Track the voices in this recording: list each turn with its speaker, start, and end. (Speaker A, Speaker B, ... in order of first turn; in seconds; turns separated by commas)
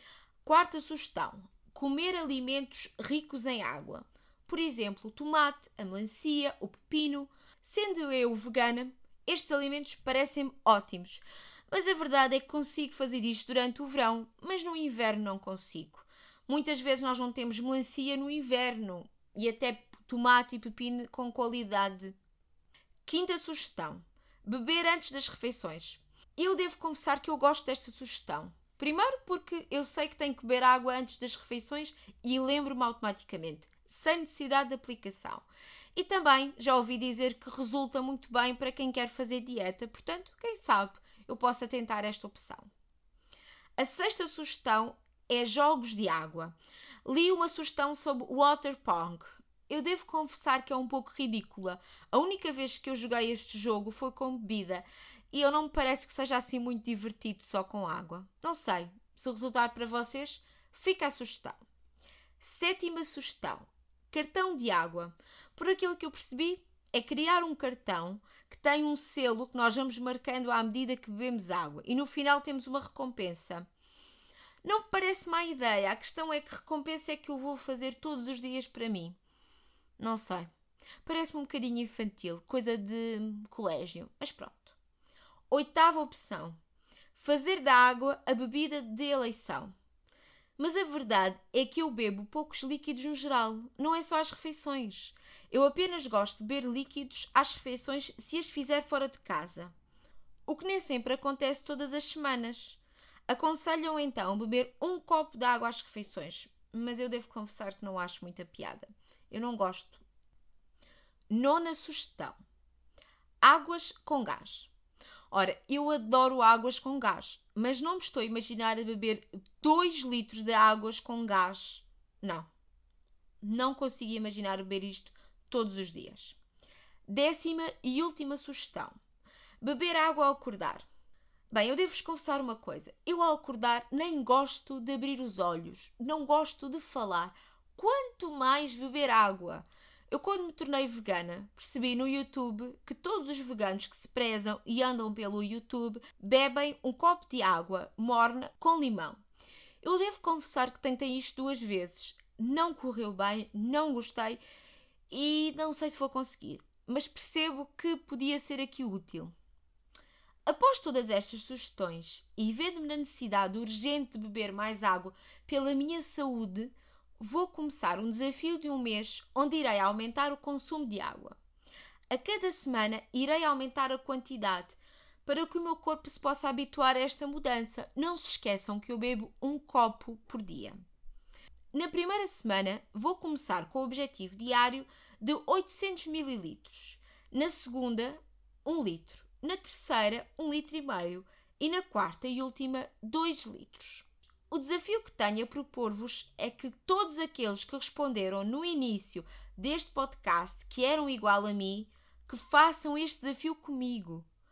Speaker A: 0.4-22.1, Speaker A: 23.1-42.7, Speaker A: 43.8-61.6, Speaker A: 62.4-73.7, Speaker A: 74.6-79.2, Speaker A: 80.0-80.5, Speaker A: 81.0-84.8, Speaker A: 85.5-86.6, Speaker A: 87.1-89.7, Speaker A: 90.6-99.7, Speaker A: 100.5-110.0, Speaker A: 111.3-112.4, Speaker A: 113.4-114.7, Speaker A: 115.3-122.5, Speaker A: 123.4-126.4, Speaker A: 127.1-128.9, Speaker A: 129.6-130.8, Speaker A: 131.5-149.2, Speaker A: 149.8-154.4, Speaker A: 155.1-159.3, Speaker A: 160.4-171.4, Speaker A: 172.1-180.8, Speaker A: 181.7-204.3